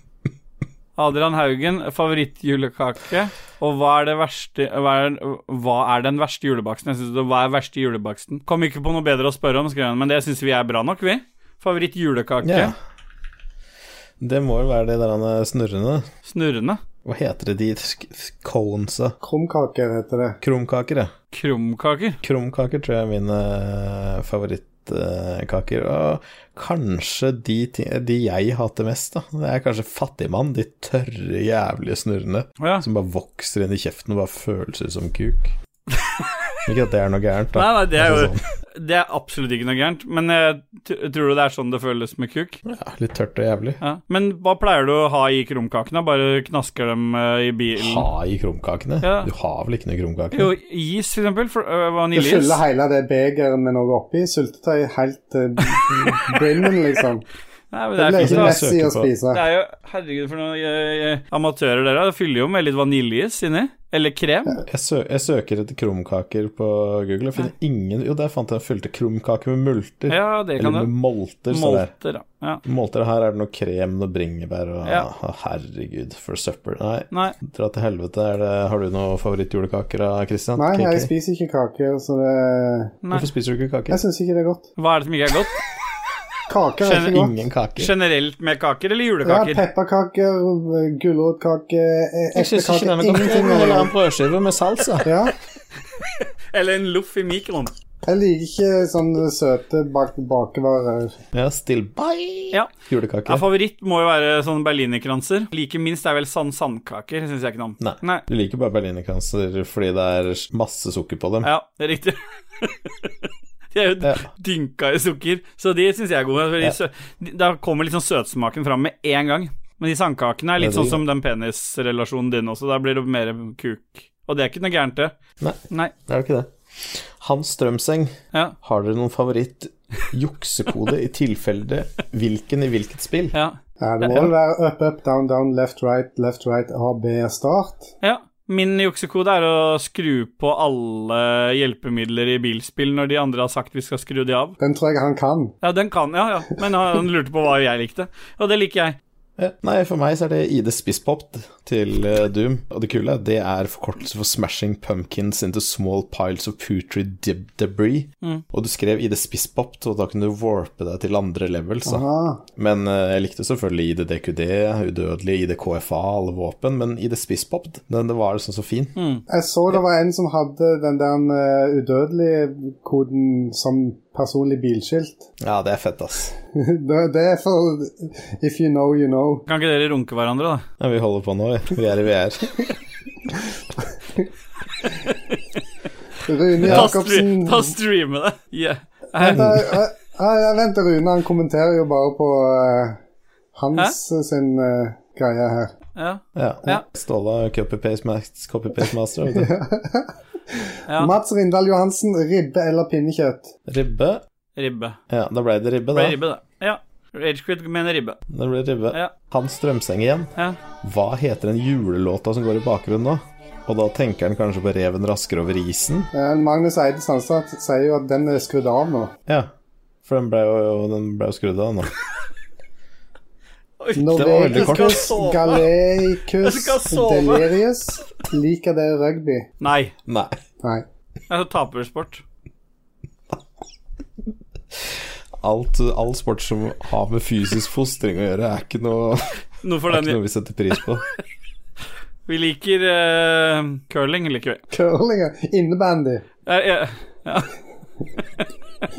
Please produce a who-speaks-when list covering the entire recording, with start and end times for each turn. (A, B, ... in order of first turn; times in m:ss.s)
0:01.0-0:12.7 A
0:12.4-0:12.7 B
0:14.2-0:16.0 B
0:16.2-0:16.8 A
0:17.0-0:19.2 B
0:19.2-0:20.4 C
0:20.4-0:21.1 B
0:21.3-0:22.2 A
0:22.2-0:35.6 B
0:32.6-0:32.8 A
0:36.7-0:38.4 B
0:37.6-0:42.6 A
0:42.6-0:43.8 B
0:43.8-0:48.1 A
0:47.8-0:50.5 B
0:49.0-0:49.3 A
0:50.3-0:52.6 A
0:52.1-0:57.3 C
0:55.7-0:56.2 A
0:57.7-0:58.6 A
0:58.0-0:59.4 C
0:58.2-0:59.1 B
0:59.3-1:04.6 A
1:04.6-1:11.9 B
1:10.1-1:10.9 A
1:11.5-1:12.6 A
1:12.6-1:21.1 B
1:17.1-1:17.4 A
1:20.6-1:23.0 C
1:23.1-1:24.0 B
1:23.9-1:24.7 C
1:24.8-1:25.6 A
1:26.5-1:27.3 C
1:26.8-1:27.2 A
1:27.0-1:27.9 B
1:27.8-1:29.6 A
1:29.2-1:33.9 C
1:32.4-1:35.1 B
1:35.0-1:35.3 C
1:36.0-1:37.7 A
1:38.1-1:41.2 C
1:41.3-1:43.4 B
1:43.3-1:48.2 A
1:47.8-1:51.5 B
1:51.4-2:05.2 A
2:00.6-2:01.0 B
2:05.4-2:13.4 B
2:13.3-2:14.3 A
2:13.8-2:17.9 C
2:18.0-2:24.6 A
2:24.6-2:25.6 C
2:25.6-2:29.0 A
2:29.4-2:42.0 B
2:41.8-2:42.4 C
2:42.6-2:49.0 B
2:49.0-2:49.2 A
2:49.3-2:55.3 C
2:55.4-2:56.3 B
2:56.5-2:59.5 C
2:59.5-3:00.7 A
3:00.8-3:02.6 B
3:05.1-3:05.4 A
3:06.2-3:07.7 C
3:06.6-3:06.9 B
3:06.6-3:09.8 A
3:09.2-3:13.0 C
3:13.6-3:15.7 C
3:16.0-3:16.8 A
3:16.4-3:19.5 B
3:19.3-3:23.5 C
3:20.9-3:21.1 A
3:23.7-3:24.2 B
3:24.6-3:25.0 A
3:25.1-3:26.2 B
3:25.9-3:28.2 A
3:28.3-3:36.1 B
3:36.1-3:39.1 C
3:40.0-3:41.9 B
3:43.8-3:45.7 A
3:44.0-3:49.5 C
3:44.2-3:45.1 B
3:46.4-3:47.6 A
3:49.6-3:49.9 A
3:50.1-3:50.4 B
3:51.3-3:52.2 A
3:54.8-4:01.0 B
3:59.6-4:00.2 A
4:02.3-4:04.6 A
4:04.7-4:06.2 C
4:06.5-4:07.5 A